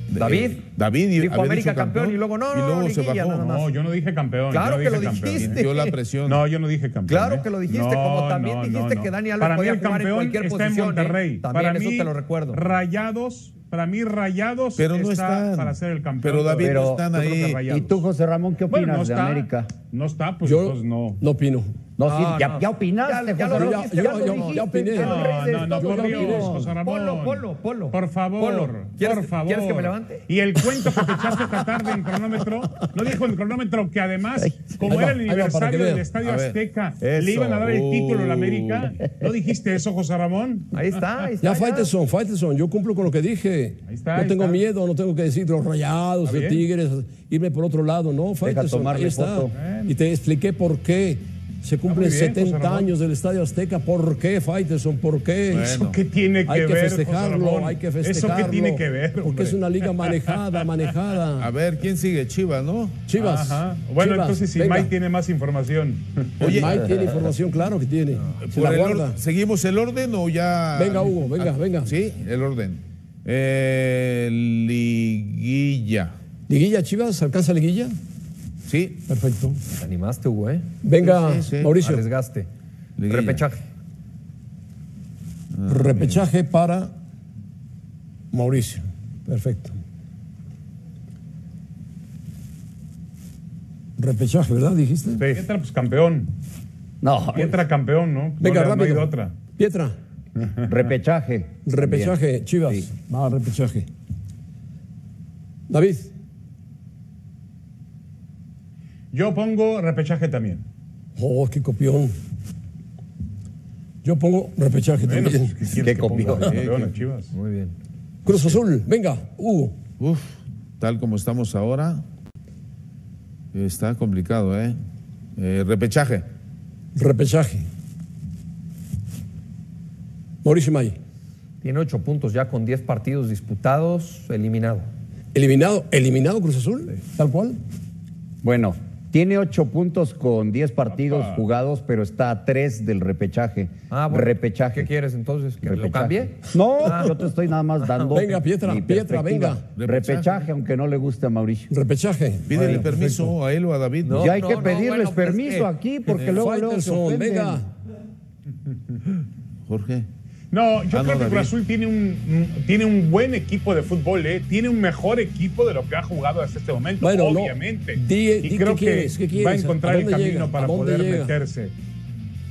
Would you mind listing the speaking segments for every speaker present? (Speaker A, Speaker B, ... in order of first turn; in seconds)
Speaker A: 0.1-3.5, 4.9-6.4, 14.8-17.6, 36.2-39.0, 55.5-56.0, 61.4-63.0, 66.4-67.3, 68.4-76.1, 78.7-79.0, 81.0-81.8, 83.0-83.4, 85.5-86.2, 116.3-116.9, 120.0-122.0, 123.5-124.8, 125.4-126.2, 149.8-150.5, 152.5-154.6, 159.7-160.1, 160.9-161.5
Speaker B: 0.2-0.6, 1.2-3.7, 4.5-5.9, 7.1-12.6, 22.0-30.2, 40.7-41.9, 79.7-80.7, 81.8-82.5, 83.1-83.6, 117.3-117.7, 131.6-134.9, 143.9-147.2, 147.8-148.2, 154.0-155.7
Speaker C: 3.4-5.6, 6.2-18.0, 18.7-21.2, 25.0-41.1, 43.9-44.6, 46.2-46.6, 49.5-49.9, 51.9-52.9, 55.5-60.7, 63.2-66.5, 95.2-96.3, 97.3-99.3, 100.4-100.7, 109.1-110.6, 115.0-117.3, 140.9-141.4, 160.5-171.7
Speaker D: 16.6-19.7, 22.0-26.7, 34.4-35.1, 48.4-49.5, 66.7-67.2, 97.0-97.6, 100.7-102.9, 115.7-116.6, 138.4-144.9, 145.6-151.7, 154.1-157.6
Speaker E: 20.4-21.7, 23.5-26.7, 34.9-36.1, 41.4-55.8, 56.5-61.5, 63.1-64.9, 66.4-69.2, 70.7-71.9, 76.5-78.0, 79.1-79.6, 80.8-82.0, 85.7-86.9, 88.3-89.8, 94.0-95.3, 98.4-100.0, 101.7-103.9, 105.7-106.1, 111.2-112.1, 114.0-115.5, 118.2-119.7, 127.0-127.7, 130.4-130.9, 135.3-137.6, 148.1-149.6, 151.7-153.3, 156.2-157.7, 167.0-171.3